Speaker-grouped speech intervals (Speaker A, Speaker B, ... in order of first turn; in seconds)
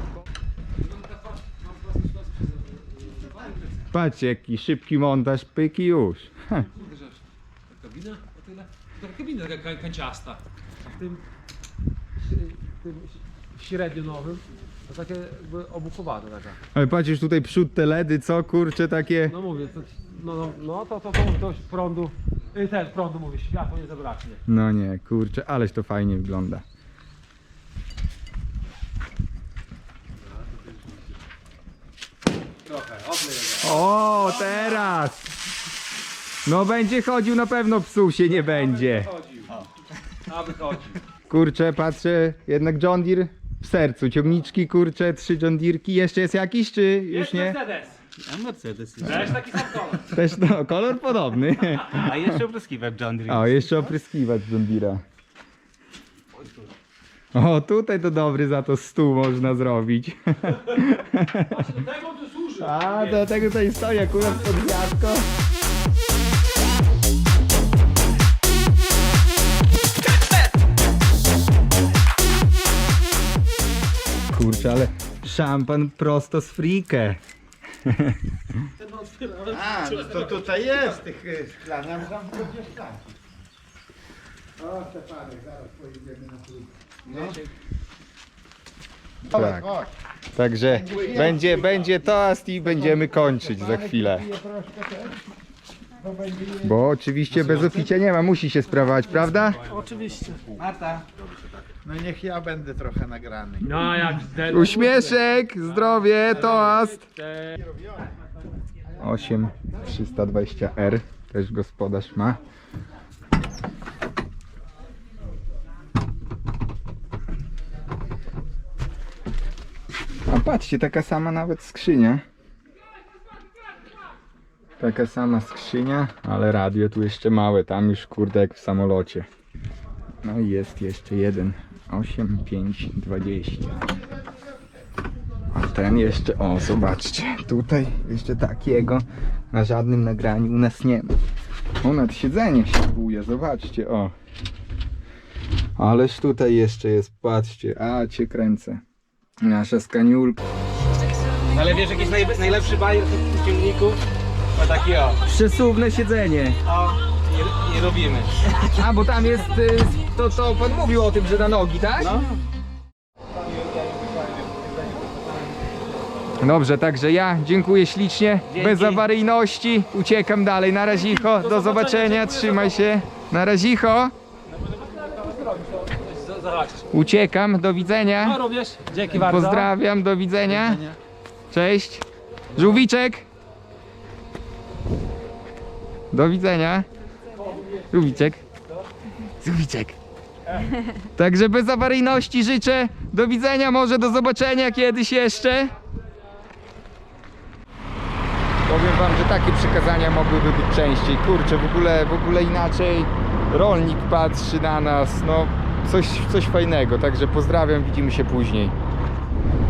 Speaker A: 0.8-3.7, 6.5-11.2, 12.2-16.6, 19.3-24.4, 32.6-34.8, 38.3-39.5, 40.3-41.0, 47.1-48.0, 49.0-50.1, 61.5-63.3, 64.1-64.8, 78.8-80.5, 99.4-100.4, 103.6-107.6, 170.9-172.9, 174.7-176.9, 178.2-179.7, 187.3-188.1
Speaker B: 3.9-6.7, 16.7-19.3, 24.5-26.6, 33.6-35.3, 36.5-39.1, 41.3-47.6, 50.1-52.4, 53.3-55.0, 57.3-61.7, 62.6-65.2, 74.3-77.2, 77.8-78.2, 89.3-89.7, 90.3-94.2, 96.6-99.6, 104.5-107.0, 109.0-112.4, 120.3-122.2, 124.8-129.3, 130.2-133.8, 135.5-141.2, 141.8-144.1, 145.8-148.8, 149.4-150.4, 155.3-156.6, 158.7-162.2, 166.4-174.1, 176.9-178.4, 179.0-180.8, 181.5-183.2, 186.1-186.9, 187.9-188.4, 189.4-190.0, 191.0-195.7, 198.7-208.7
Speaker C: 48.2-49.8, 52.0-53.8, 87.1-87.4, 97.3-97.9, 100.5-101.6, 151.5-154.0, 154.5-155.2, 156.6-158.7, 162.0-162.3, 163.3-165.4, 168.5-169.0
Speaker D: 79.5-83.1, 84.6-87.3, 89.2-89.9, 90.8-91.8, 92.7-95.2, 96.0-96.7, 99.7-100.2, 101.8-103.7